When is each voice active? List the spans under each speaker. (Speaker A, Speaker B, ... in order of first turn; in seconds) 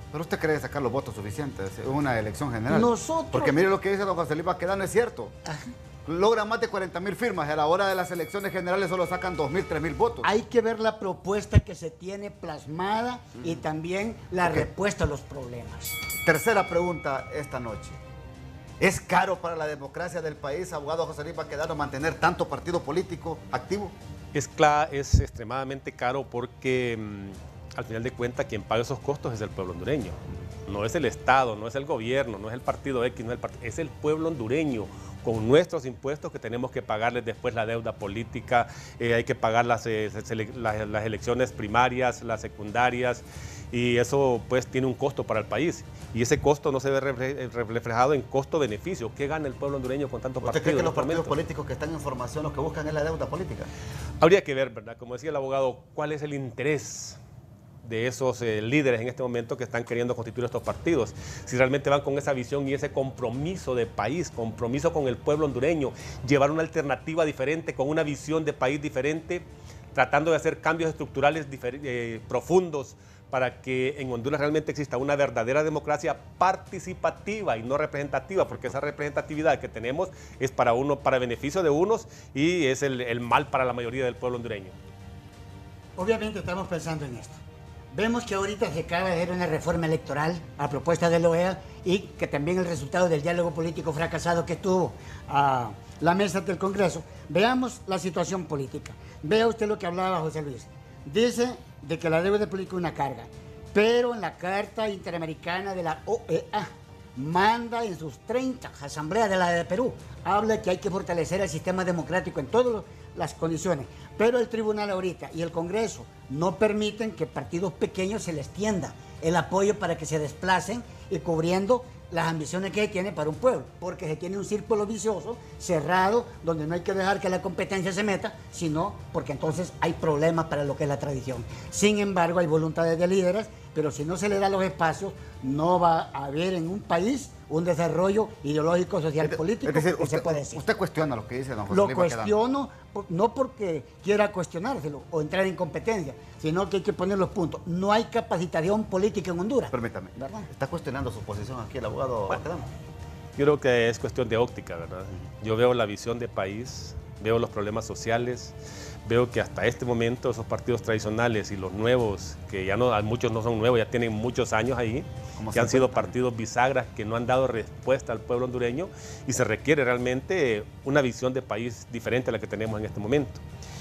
Speaker A: 0.1-5.4, 6.0-10.3, 16.2-18.0, 18.8-23.9, 50.4-53.7, 139.2-142.3, 149.7-152.7, 165.4-166.1
Speaker B: 2.7-3.6, 10.2-16.0, 86.0-87.4, 87.9-140.6, 141.7-149.7
Speaker C: 24.3-51.4, 54.2-57.2, 57.8-84.8, 153.4-158.6, 159.1-173.4